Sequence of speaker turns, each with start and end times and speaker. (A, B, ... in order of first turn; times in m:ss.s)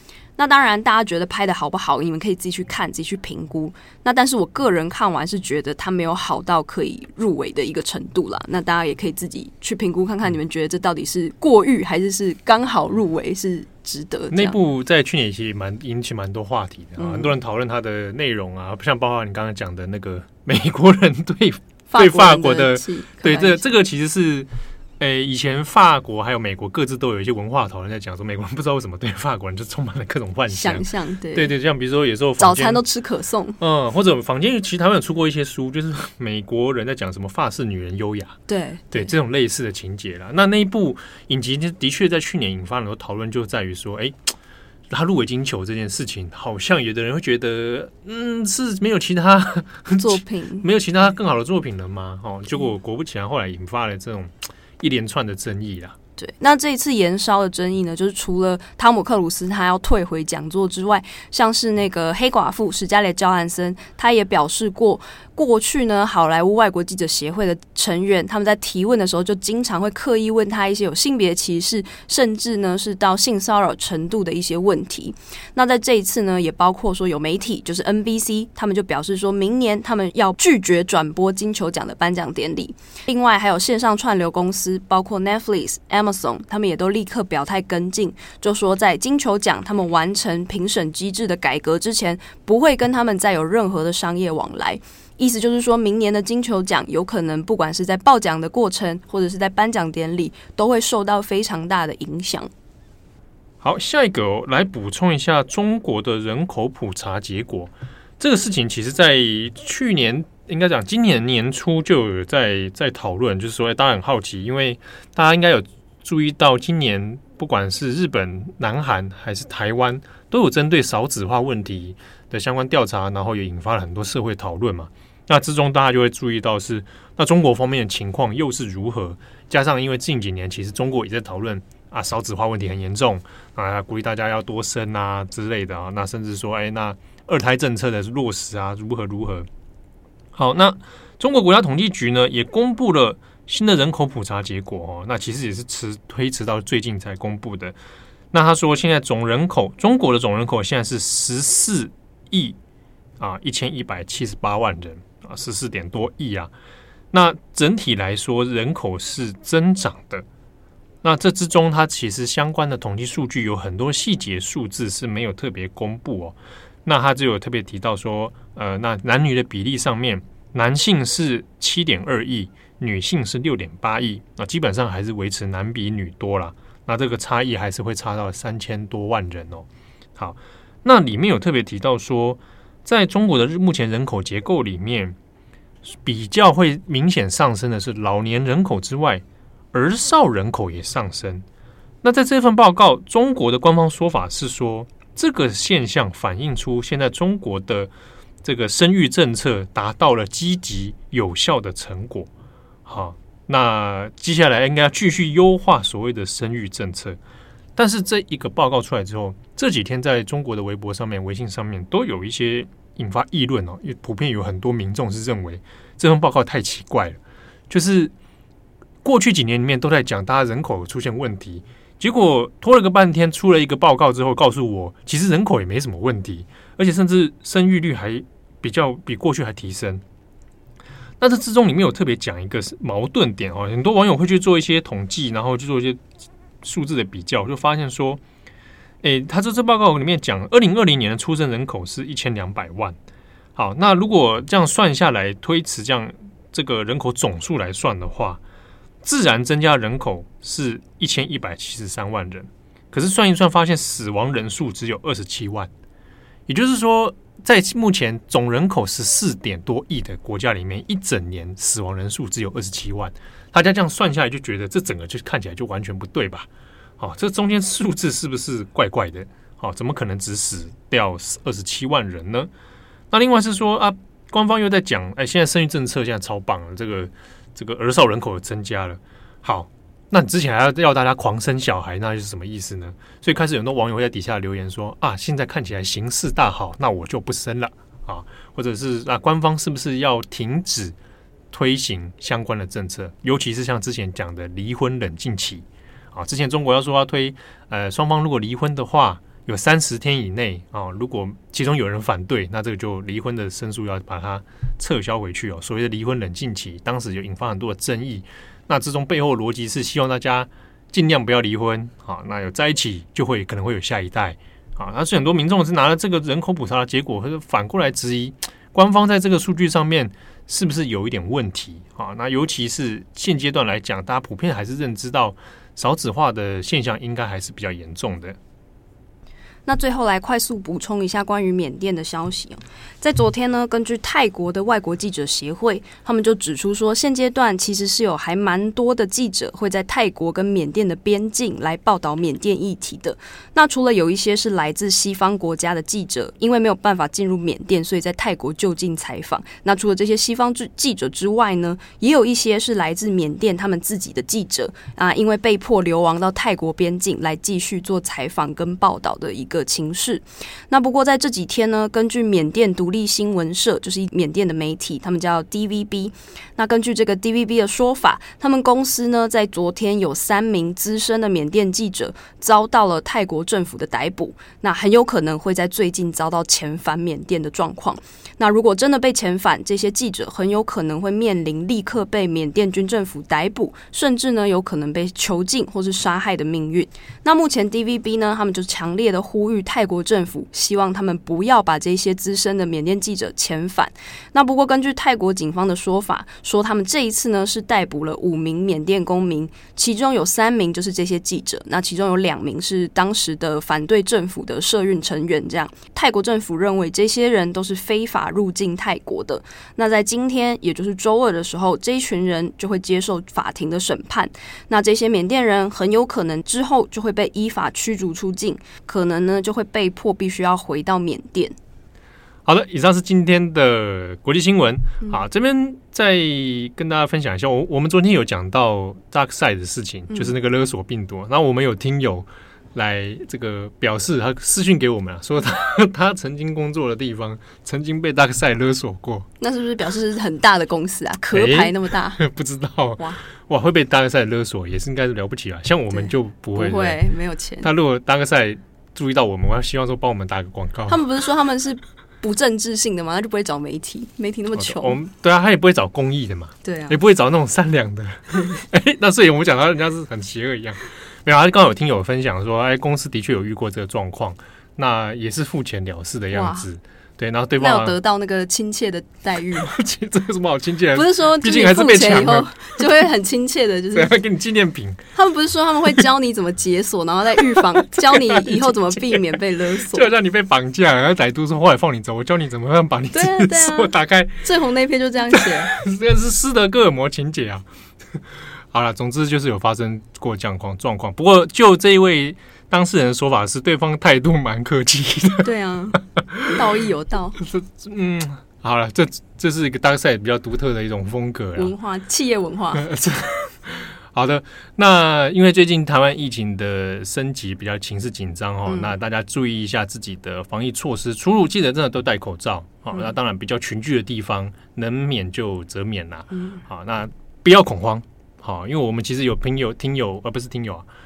0:00.4-0:14.6 A
0:14.3-0:32.8 B
0:17.0-0:17.3 A
0:21.9-0:23.7 A
0:30.5-0:31.5 A
0:32.4-0:33.6 A
0:33.6-0:38.4 B
0:38.5-0:39.1 A
0:38.9-0:44.3 B
0:44.9-0:56.0 B
0:50.0-0:50.6 A
0:56.2-1:42.5 A
1:43.6-2:19.5 B
2:20.3-2:27.8 B
2:28.3-2:32.6 B
2:33.2-2:36.5 B
2:37.1-2:40.2 B
2:41.0-3:05.2 B
3:05.8-3:11.4 B
3:12.0-3:17.9 B
3:18.4-3:22.3 B
3:22.8-3:27.2 B
3:27.8-3:37.2 B
3:37.7-3:38.1 B
3:39.0-3:50.0 B
3:51.2-3:56.0 B
3:56.6-3:58.2 B
3:59.0-4:03.0 B
4:03.6-4:08.4 B
4:09.0-4:15.7 B
4:16.5-4:26.5 B
4:27.0-4:32.5 B
4:33.1-4:51.0 B
4:51.5-5:28.4 B
5:29.6-7:01.5 A
7:02.4-7:19.3 B
7:19.4-7:22.2 A
7:21.3-7:27.0 B
7:25.9-7:27.7 A
7:27.6-7:31.0 B
7:30.9-7:35.0 A
7:34.6-7:48.0 B
7:36.6-7:37.0 A
7:46.3-7:46.6 A
7:47.6-7:49.7 A
7:49.6-7:52.9 B
7:50.9-7:54.1 A
7:53.9-7:55.0 B
7:55.1-8:00.1 A
7:57.4-7:59.4 B
7:59.9-8:04.4 B
8:03.1-8:05.7 A
8:05.3-8:08.2 B
8:08.7-8:15.5 B
8:15.4-8:17.4 A
8:17.4-8:21.7 B
8:21.6-8:22.8 A
8:22.7-8:40.8 B